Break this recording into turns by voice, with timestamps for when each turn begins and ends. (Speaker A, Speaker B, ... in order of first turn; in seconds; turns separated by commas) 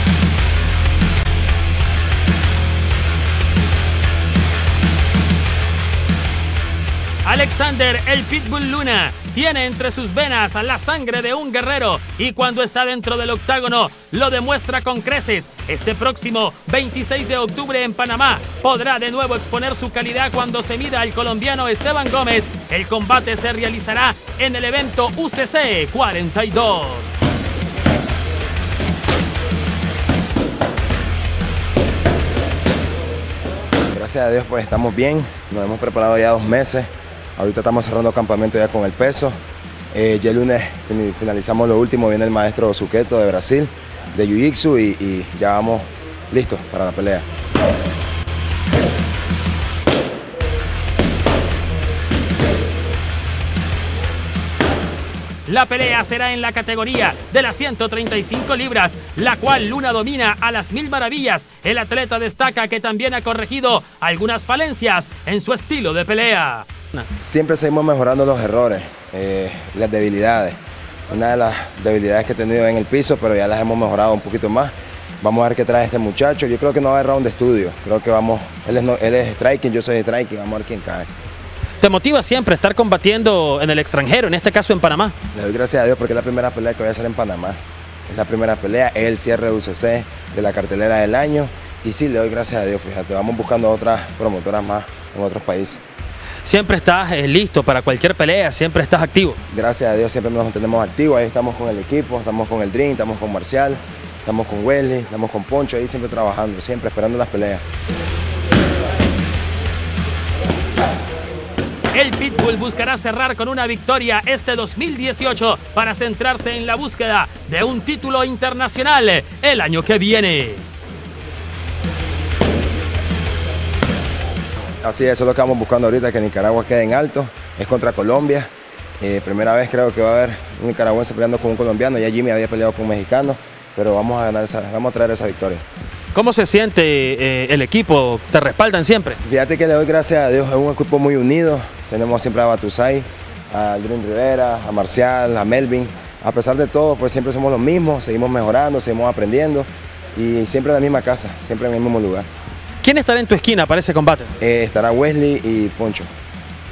Speaker A: 7.2-27.1, Speaker B: 33.9-39.4, Speaker B: 39.9-47.2, Speaker A: 55.5-67.1, Speaker B: 67.1-70.6, Speaker B: 71.1-81.1, Speaker A: 81.8-85.1, Speaker B: 85.3-95.8, Speaker A: 96.5-99.4, Speaker B: 99.5-107.6, Speaker A: 111.9-120.7, Speaker B: 124.8-128.5, Speaker B: 129.0-135.6, Speaker A: 136.1-139.2, Speaker B: 139.2-152.3, Speaker A: 152.8-154.3, Speaker B: 154.4-156.1